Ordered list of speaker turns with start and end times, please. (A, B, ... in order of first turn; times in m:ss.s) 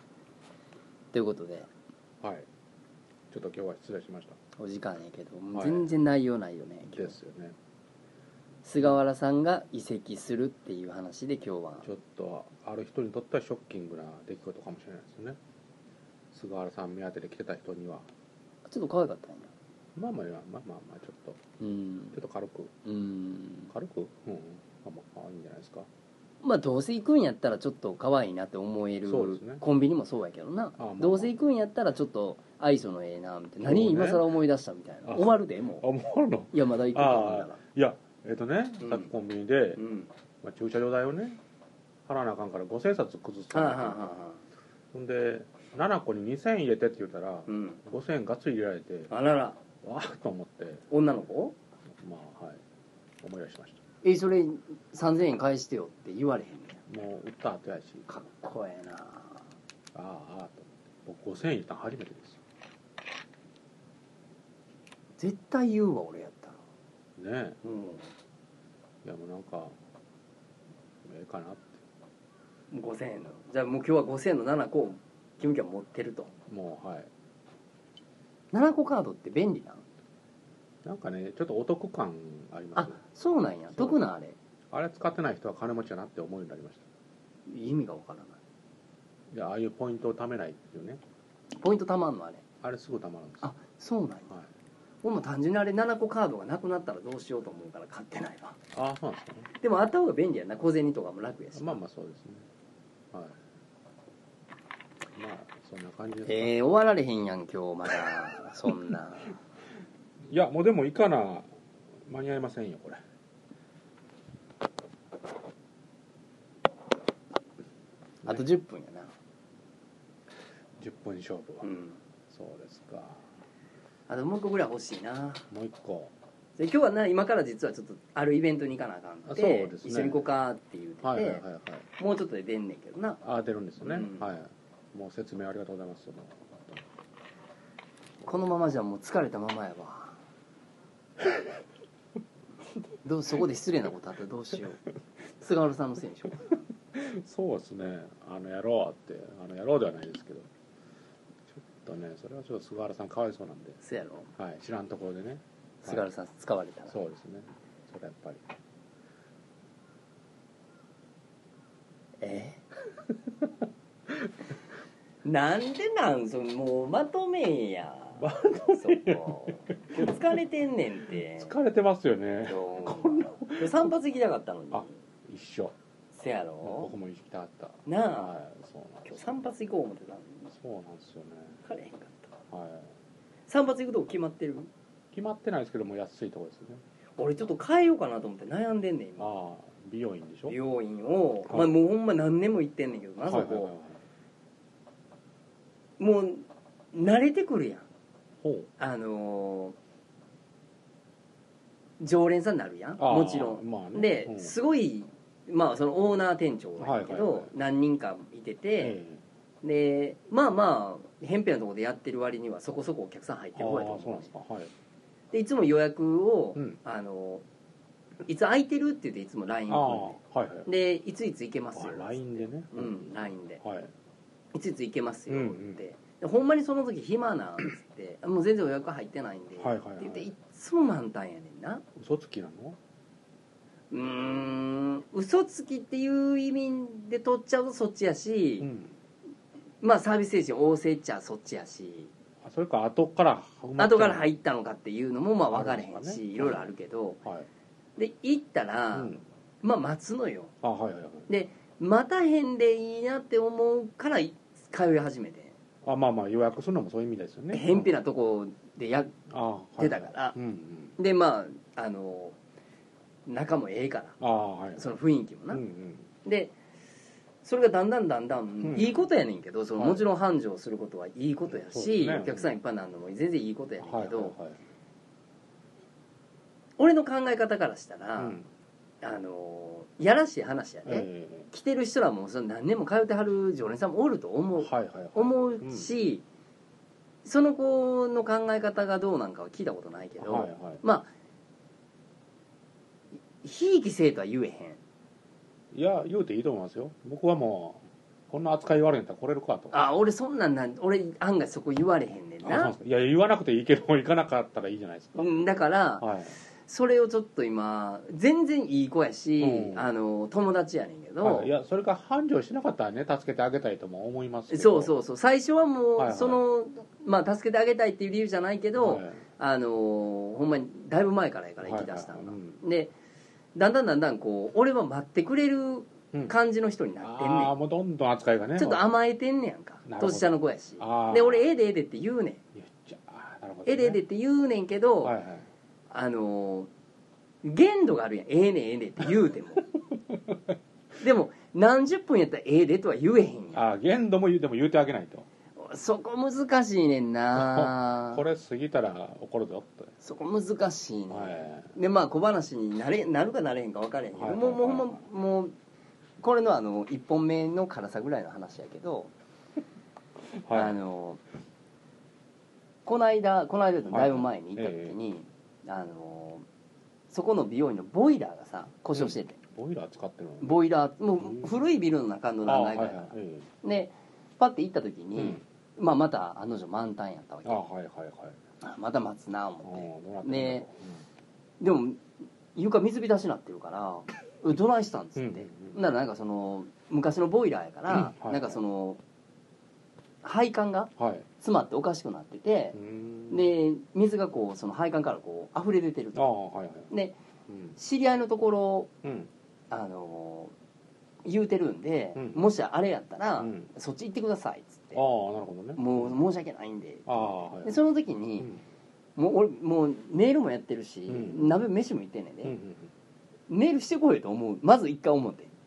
0:01.1-0:01.7 A
0:02.2-0:02.5 B
0:03.3-0:04.4 B
0:04.6-0:07.2 A
0:05.5-0:05.9 B
0:06.9-0:07.6 B
0:08.6-0:11.9 A
0:11.8-0:15.4 B
0:16.3-0:18.1 B
0:18.7-0:19.5 A
0:20.0-0:21.4 B
0:21.6-0:22.2 A
0:22.1-0:22.8 B
0:22.8-0:23.7 A
0:23.7-0:25.9 B
0:26.4-0:35.9 A
0:29.1-0:29.6 B
0:30.8-0:31.4 B
0:33.6-0:34.3 B
0:35.1-0:39.8 B
0:36.5-0:37.6 A
0:38.8-0:39.1 A
0:39.8-0:40.1 A
0:40.4-0:41.4 B
0:42.1-0:44.1 B
0:43.5-0:44.4 A
0:44.9-0:49.1 B
0:47.5-0:47.8 A
0:49.1-0:49.6 A
0:49.8-0:50.8 B
0:50.9-0:51.6 A
0:52.0-0:52.6 B
0:53.2-0:53.8 B
0:54.0-0:56.8 A
0:56.9-0:58.1 B
0:58.1-0:59.4 A
0:59.9-1:02.4 B
1:05.2-1:06.6 A
1:07.2-1:07.6 B
1:07.6-1:08.1 A
1:09.0-1:09.8 B
1:11.0-1:11.8 B
1:12.7-1:16.3 A
1:16.5-1:17.1 B
1:18.5-1:19.8 A
1:20.8-1:23.0 B
1:22.8-1:24.4 A
1:24.7-1:26.8 B
1:27.5-1:28.4 A
1:29.3-1:31.0 B
1:31.6-1:32.4 A
1:32.6-1:33.5 B
1:33.4-1:34.3 A
1:35.0-1:38.6 A
1:38.7-1:39.5 B
1:39.6-1:41.8 A
1:41.6-1:42.5 B
1:43.1-1:43.4 B
1:45.2-1:46.5 B
1:46.3-1:49.4 A
1:50.3-1:51.5 B
1:52.0-1:53.0 B
1:58.2-1:59.1 A
2:00.8-2:01.7 B
2:01.6-2:02.0 A
2:02.3-2:03.2 B
2:04.1-2:05.4 A
2:05.5-2:06.1 B
2:06.6-2:11.4 A
2:09.3-2:10.2 B
2:11.0-2:11.9 B
2:12.0-2:13.2 A
2:13.2-2:16.8 B
2:13.8-2:14.3 A
2:18.2-2:20.2 A
2:23.0-2:24.8 A
2:25.4-2:26.6 A
2:26.9-2:30.5 B
2:31.5-2:33.8 B
2:33.8-2:34.3 A
2:34.4-2:36.0 B
2:35.8-2:37.0 A
2:36.9-2:38.4 B
2:42.2-2:42.6 A
2:45.2-2:51.6 A
2:48.2-2:50.2 B
2:51.4-2:53.9 B
2:52.4-2:54.9 A
2:54.7-2:55.7 B
2:56.1-2:56.9 A
2:56.6-2:59.4 B
2:57.9-2:58.3 A
2:59.0-3:00.5 A
3:00.5-3:01.6 B
3:01.7-3:02.4 A
3:02.5-3:02.9 B
3:03.5-3:04.7 A
3:05.1-3:06.8 B
3:07.2-3:09.4 A
3:09.2-3:10.6 B
3:10.5-3:13.7 A
3:11.5-3:11.7 B
3:13.3-3:14.0 B
3:16.0-3:17.9 A
3:18.4-3:18.7 B
3:18.8-3:19.8 A
3:22.0-3:29.0 A
3:23.0-3:24.5 B
3:26.8-3:27.5 B
3:28.8-3:29.2 B
3:29.6-3:34.3 A
3:33.6-3:34.7 B
3:35.3-3:37.4 A
3:38.3-3:43.6 A
3:39.7-3:40.7 B
3:41.8-3:43.9 B
3:44.5-3:51.8 A
3:45.3-3:45.8 B
3:49.6-3:50.3 B
3:52.0-3:52.8 B
3:53.9-3:58.7 A
3:58.6-3:59.0 B
3:59.8-4:02.1 A
4:02.4-4:04.3 B
4:03.8-4:07.2 A
4:05.5-4:06.7 B
4:07.2-4:07.5 B
4:08.0-4:10.5 A
4:08.9-4:09.2 B
4:10.6-4:11.3 B
4:11.3-4:15.6 A
4:15.8-4:17.9 B
4:17.5-4:19.2 A
4:19.3-4:21.0 B
4:19.8-4:20.4 A
4:21.0-4:22.4 A
4:23.3-4:24.2 A
4:24.2-4:24.9 B
4:24.8-4:25.6 A
4:25.5-4:26.1 B
4:26.2-4:26.5 A
4:27.4-4:34.4 A
4:28.6-4:29.1 B
4:29.8-4:30.1 B
4:31.5-4:32.5 B
4:33.8-4:34.6 B
4:36.8-4:38.4 A
4:38.2-4:38.5 B
4:39.0-4:46.2 A
4:40.9-4:41.5 B
4:44.6-4:45.9 B
4:47.2-4:51.1 A
4:50.2-4:50.8 B
4:53.4-4:54.8 A
4:55.7-4:59.8 B
4:59.7-5:02.7 A
5:02.4-5:05.5 B
5:05.2-5:11.5 A
5:06.0-5:06.4 B
5:09.4-5:09.9 B
5:11.2-5:14.9 B
5:14.5-5:22.9 A
5:16.0-5:16.4 B
5:18.8-5:19.2 B
5:21.6-5:22.6 B
5:23.6-5:27.5 A
5:27.0-5:28.8 B
5:28.6-5:32.4 A
5:29.9-5:31.4 B
5:32.6-5:34.0 B
5:33.7-5:35.2 A
5:35.0-5:35.5 B
5:35.9-5:36.7 A
5:37.4-5:39.6 A
5:40.0-5:40.4 B
5:41.0-5:43.6 A
5:43.5-5:45.3 B
5:45.6-5:48.2 A
5:47.3-5:49.9 B
5:50.0-5:55.5 A
5:51.1-5:51.7 B
5:54.2-5:55.0 B
5:56.2-5:59.1 A
6:00.4-6:00.8 B
6:00.5-6:01.2 A
6:02.9-6:06.5 A
6:03.9-6:05.0 B
6:07.1-6:09.4 A
6:08.9-6:10.6 B
6:10.4-6:17.6 A
6:11.2-6:11.5 B
6:12.5-6:13.5 B
6:15.2-6:15.4 B
6:17.4-6:18.4 B
6:18.6-6:20.7 A
6:19.6-6:21.0 B
6:21.6-6:22.0 A
6:22.6-6:29.0 A
6:25.2-6:25.8 B
6:27.9-6:28.6 B
6:30.2-6:32.8 A
6:31.0-6:31.3 B
6:32.7-6:33.5 B
6:33.3-6:36.2 A
6:36.2-6:36.9 B
6:36.9-6:37.2 A
6:37.5-6:37.8 B
6:37.8-6:38.9 A
6:39.0-6:39.3 B
6:39.7-6:40.5 A
6:41.2-6:45.0 A
6:42.2-6:42.5 B
6:43.4-6:43.7 B
6:44.9-6:46.2 B
6:45.8-6:48.5 A
6:47.1-6:47.7 B
6:49.2-6:52.6 A
6:51.1-6:51.6 B
6:52.4-6:52.9 B
6:53.5-6:55.5 A